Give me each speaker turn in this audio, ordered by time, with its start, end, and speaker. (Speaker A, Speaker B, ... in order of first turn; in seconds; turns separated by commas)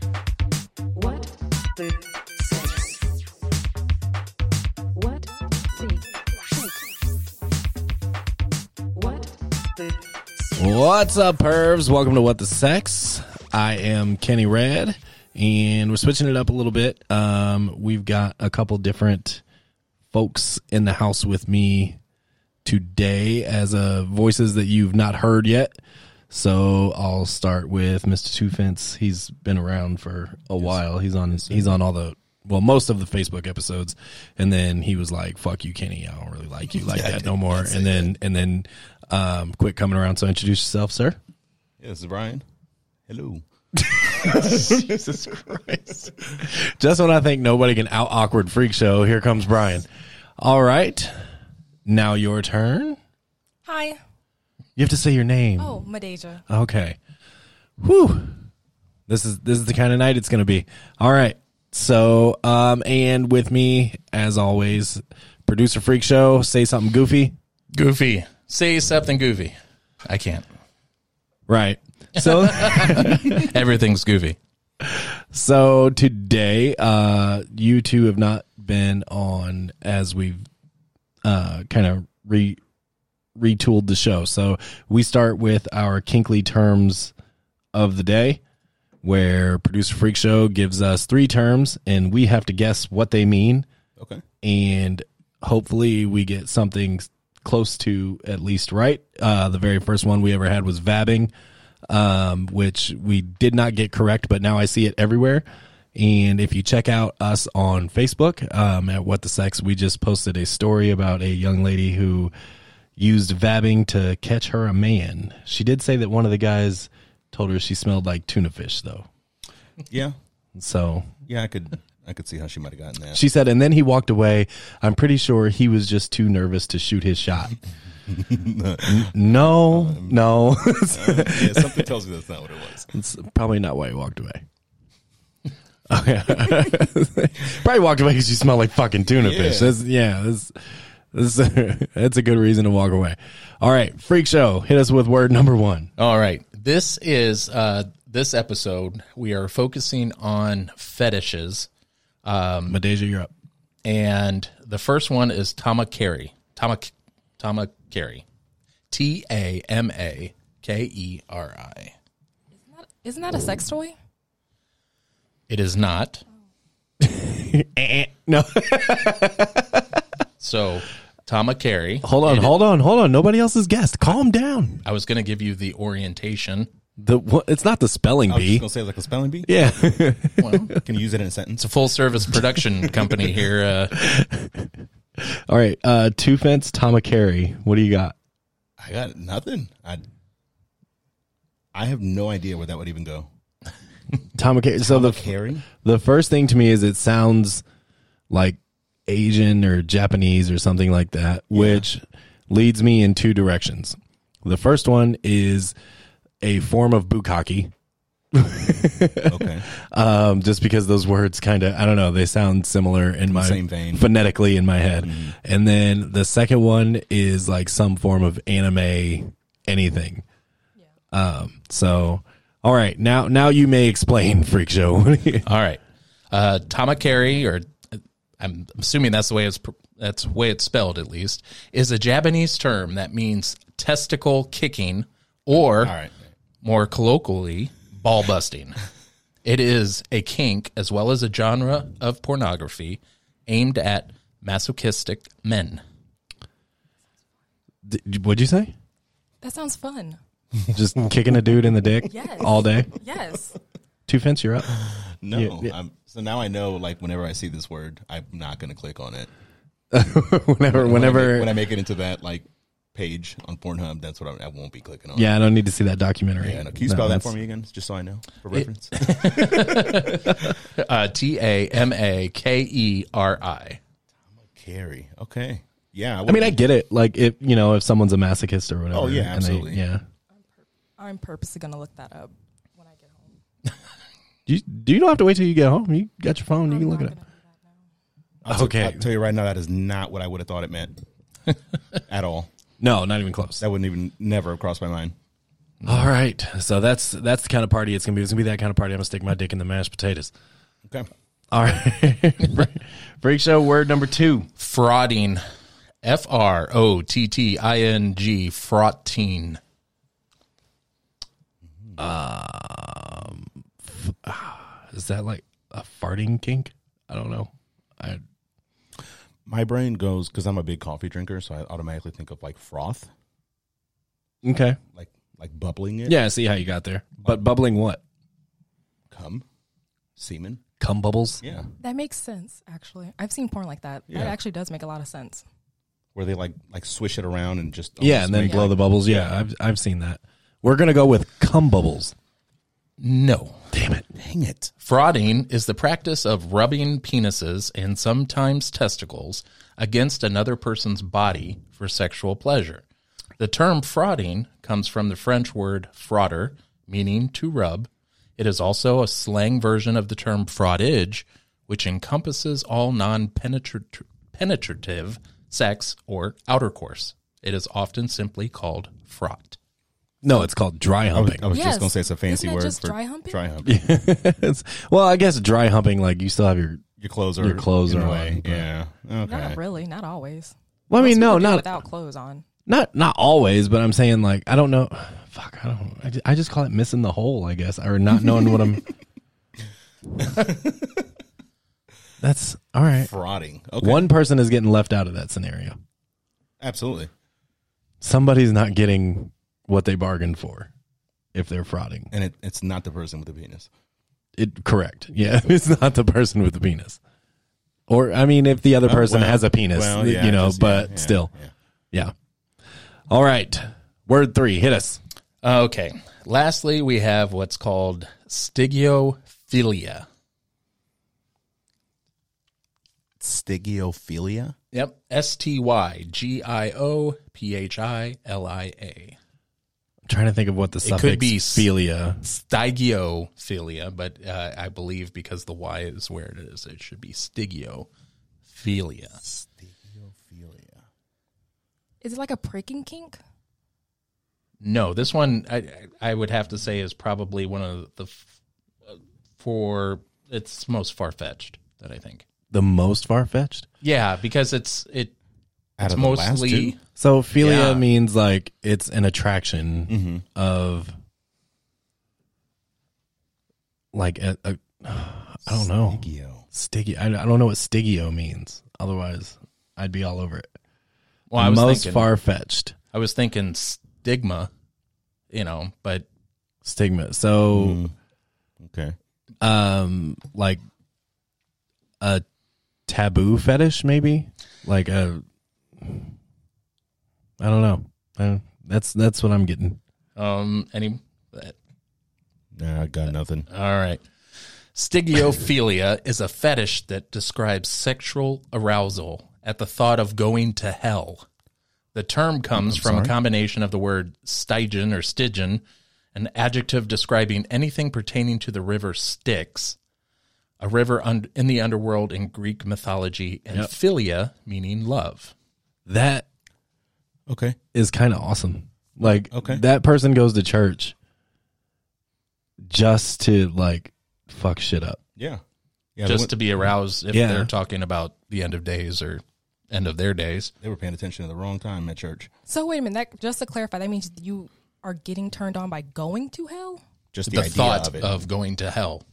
Speaker A: 0.9-2.9, Speaker A: 4.9-6.7, Speaker A: 8.9-9.9, Speaker B: 10.6-19.4, Speaker B: 20.1-22.0, Speaker B: 22.6-25.8, Speaker B: 26.3-41.2, Speaker C: 36.7-38.1, Speaker C: 41.8-42.4, Speaker C: 43.1-45.3, Speaker B: 43.8-49.9, Speaker B: 50.4-51.1, Speaker B: 51.9-53.0, Speaker D: 53.6-54.0, Speaker B: 54.8-55.8, Speaker D: 55.6-56.4, Speaker B: 56.5-57.0, Speaker B: 57.8-58.4, Speaker B: 59.1-67.3, Speaker E: 67.7-70.5, Speaker B: 71.5-73.5, Speaker E: 72.2-74.4, Speaker B: 74.8-80.4, Speaker B: 81.2-82.6, Speaker B: 83.3-87.1, Speaker B: 87.7-88.4, Speaker B: 89.0-93.7, Speaker C: 94.0-94.2, Speaker B: 94.4-101.3, Speaker B: 101.9-112.3, Speaker B: 113.0-119.1, Speaker C: 119.9-120.2, Speaker B: 120.5-121.1, Speaker C: 121.3-123.2, Speaker B: 123.1-127.5, Speaker C: 128.1-130.2, Speaker B: 128.8-131.9, Speaker C: 130.9-132.9, Speaker B: 132.9-134.4, Speaker B: 135.9-140.6, Speaker C: 139.2-139.7, Speaker B: 141.1-145.9, Speaker E: 146.0-151.7, Speaker E: 152.2-152.8, Speaker B: 152.7-153.3, Speaker E: 153.8-158.2, Speaker E: 158.9-161.9, Speaker D: 162.6-163.9, Speaker E: 165.5-166.2, Speaker B: 167.0-170.0, Speaker E: 170.4-172.6, Speaker B: 172.0-174.8, Speaker E: 174.8-176.7, Speaker B: 177.0-178.7, Speaker C: 178.3-179.6, Speaker B: 179.4-180.8, Speaker E: 180.4-180.8, Speaker C: 180.8-181.7, Speaker E: 181.6-184.0, Speaker C: 183.0-183.3, Speaker B: 183.9-188.2, Speaker C: 188.8-190.0, Speaker C: 191.7-193.3, Speaker B: 194.3-197.6, Speaker C: 194.8-195.7, Speaker B: 198.3-205.7, Speaker C: 201.5-201.8, Speaker B: 206.4-207.7, Speaker B: 208.3-220.2, Speaker C: 209.2-209.7, Speaker C: 213.3-214.1, Speaker C: 215.0-215.3, Speaker B: 221.1-225.4, Speaker E: 225.4-235.9, Speaker C: 235.8-236.2, Speaker E: 236.6-238.8, Speaker E: 239.4-245.8, Speaker B: 247.8-248.7, Speaker D: 249.4-250.2, Speaker B: 250.7-252.9, Speaker D: 252.1-253.6, Speaker B: 254.1-254.7, Speaker C: 254.7-259.3, Speaker B: 255.3-255.7, Speaker B: 259.9-261.6, Speaker C: 260.7-265.3, Speaker B: 265.1-267.3, Speaker C: 266.4-270.2, Speaker E: 268.5-273.8, Speaker C: 274.4-276.6, Speaker B: 276.2-280.0, Speaker C: 278.9-279.8, Speaker D: 280.3-283.4, Speaker B: 284.5-287.1, Speaker D: 286.7-287.8, Speaker C: 288.4-291.0, Speaker B: 288.4-289.1, Speaker C: 292.0-292.5, Speaker B: 292.8-293.6, Speaker C: 293.6-295.1, Speaker B: 295.8-300.3, Speaker B: 301.5-304.5, Speaker E: 304.6-305.4, Speaker E: 306.0-309.6, Speaker B: 312.0-318.2, Speaker C: 319.4-323.1, Speaker B: 324.4-324.8, Speaker C: 324.9-326.2, Speaker B: 326.0-328.0, Speaker C: 329.1-329.4, Speaker C: 330.1-330.6, Speaker B: 330.8-331.4, Speaker C: 331.4-331.7, Speaker D: 331.8-335.4, Speaker C: 334.1-334.4, Speaker C: 336.1-339.3, Speaker B: 338.0-342.1, Speaker E: 343.0-343.6, Speaker B: 343.7-344.1, Speaker C: 344.1-344.7, Speaker E: 344.8-352.8, Speaker E: 353.4-369.6, Speaker B: 370.2-371.4, Speaker C: 371.1-373.7, Speaker D: 371.5-373.4, Speaker B: 373.6-376.8, Speaker C: 377.0-379.6, Speaker B: 377.4-378.7, Speaker D: 379.2-382.4, Speaker B: 380.9-381.8, Speaker B: 382.7-388.9, Speaker C: 390.2-391.0, Speaker B: 392.2-393.1, Speaker C: 393.0-394.1, Speaker B: 393.8-395.8, Speaker C: 396.6-397.1, Speaker B: 398.0-400.7, Speaker B: 401.3-402.1, Speaker C: 402.1-403.7, Speaker B: 404.4-407.0, Speaker B: 407.9-411.3, Speaker C: 408.8-411.5, Speaker B: 413.1-415.0, Speaker E: 415.4-420.1, Speaker C: 423.2-424.6, Speaker E: 424.7-429.1, Speaker B: 430.1-432.2, Speaker E: 430.8-431.7, Speaker E: 432.2-437.9, Speaker E: 438.5-439.2, Speaker C: 439.2-440.8, Speaker D: 442.0-443.2, Speaker E: 444.6-448.2, Speaker E: 448.9-452.2, Speaker B: 452.5-453.7, Speaker E: 453.8-455.1, Speaker C: 455.8-456.7, Speaker E: 455.8-456.8, Speaker B: 457.0-460.9, Speaker E: 457.4-457.8, Speaker C: 459.9-460.2, Speaker B: 463.9-470.5, Speaker C: 465.5-466.4, Speaker E: 471.3-472.1, Speaker B: 471.4-472.7, Speaker E: 472.9-474.5, Speaker E: 475.3-476.1, Speaker B: 476.6-477.8, Speaker C: 477.5-477.9, Speaker C: 478.6-478.9, Speaker B: 479.4-480.6, Speaker B: 482.9-485.2, Speaker B: 485.8-486.1, Speaker B: 487.4-489.8, Speaker E: 490.1-491.5, Speaker C: 492.6-493.5, Speaker E: 493.5-494.0, Speaker E: 494.7-501.2, Speaker E: 501.9-505.6, Speaker C: 502.6-503.1, Speaker E: 506.1-509.8, Speaker E: 510.6-515.3, Speaker B: 515.9-516.2, Speaker C: 517.3-517.6, Speaker B: 517.7-520.9, Speaker C: 519.3-519.6, Speaker B: 522.6-525.0, Speaker C: 526.0-526.3, Speaker E: 526.0-530.5, Speaker B: 527.1-527.5, Speaker C: 530.6-532.3, Speaker D: 532.5-536.8, Speaker C: 537.1-538.1, Speaker E: 537.3-539.0